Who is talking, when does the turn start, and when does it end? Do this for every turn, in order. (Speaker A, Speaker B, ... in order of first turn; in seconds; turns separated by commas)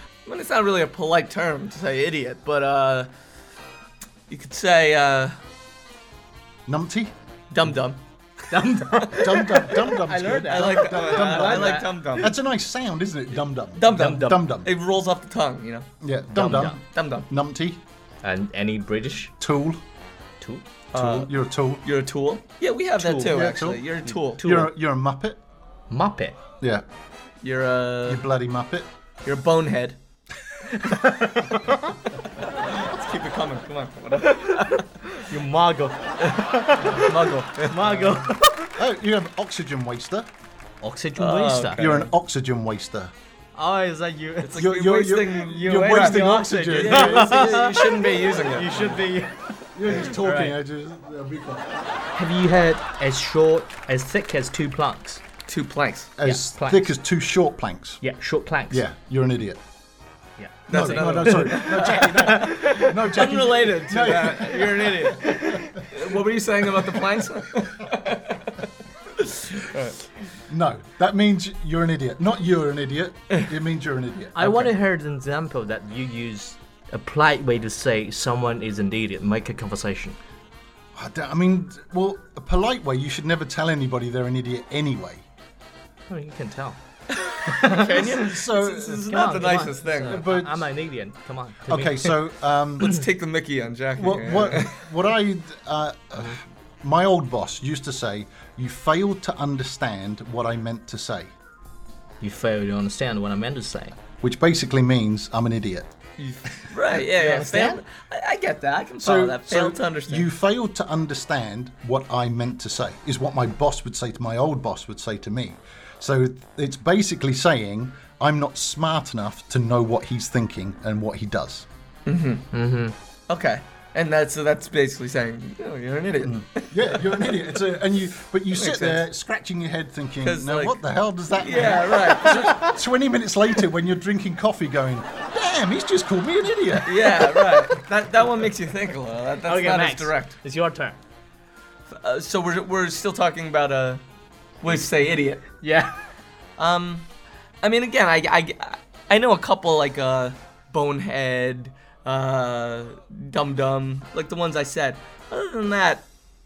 Speaker A: 0.3-3.1, Speaker A: 4.3-5.4, Speaker B: 6.7-7.1, Speaker A: 7.5-8.0, Speaker C: 8.5-12.3, Speaker B: 9.1-14.7, Speaker A: 10.4-12.3, Speaker A: 13.8-15.9, Speaker C: 13.9-14.4, Speaker B: 16.0-17.8, Speaker C: 16.3-16.8, Speaker A: 16.9-17.3, Speaker C: 18.2-19.3, Speaker B: 19.4-19.8, Speaker B: 20.9-21.8, Speaker A: 20.9-21.3, Speaker A: 21.8-24.4, Speaker C: 23.0-23.4, Speaker B: 23.1-25.4, Speaker C: 24.1-24.7, Speaker C: 25.9-26.4, Speaker A: 27.4-28.3, Speaker B: 28.1-28.9, Speaker A: 29.2-30.0, Speaker C: 30.7-31.9, Speaker A: 32.4-34.9, Speaker C: 35.0-38.7, Speaker A: 36.7-38.1, Speaker B: 38.0-40.3, Speaker C: 40.8-41.8, Speaker A: 41.2-42.1, Speaker B: 41.7-43.1, Speaker C: 43.5-49.4, Speaker A: 44.4-49.0, Speaker B: 44.5-47.6, Speaker B: 49.7-51.7, Speaker C: 49.9-50.5, Speaker C: 52.1-55.2, Speaker A: 55.5-56.1, Speaker B: 56.2-58.0, Speaker C: 56.2-56.9, Speaker C: 58.0-58.8, Speaker B: 58.7-59.6, Speaker C: 60.4-65.8, Speaker B: 60.7-65.4, Speaker A: 60.7-70.0, Speaker B: 70.5-74.7, Speaker C: 74.3-80.2, Speaker B: 80.9-85.2, Speaker C: 86.1-86.8, Speaker A: 87.2-90.2, Speaker C: 87.4-88.2, Speaker B: 88.1-89.2, Speaker C: 89.0-92.2, Speaker B: 89.9-90.7, Speaker B: 91.7-93.0, Speaker A: 92.8-94.8, Speaker B: 94.0-101.3, Speaker C: 102.2-103.9, Speaker B: 104.2-105.9, Speaker A: 106.2-110.3, Speaker C: 107.0-107.8, Speaker B: 109.0-121.7, Speaker A: 122.0-122.5, Speaker C: 122.5-122.9, Speaker A: 123.3-127.5, Speaker B: 126.2-137.7, Speaker A: 128.5-129.0, Speaker A: 130.2-132.5, Speaker C: 131.9-132.7, Speaker A: 136.8-140.3, Speaker C: 139.4-140.9, Speaker A: 141.9-144.0, Speaker A: 144.6-145.5, Speaker C: 145.6-145.9, Speaker A: 146.6-147.1, Speaker A: 147.6-156.1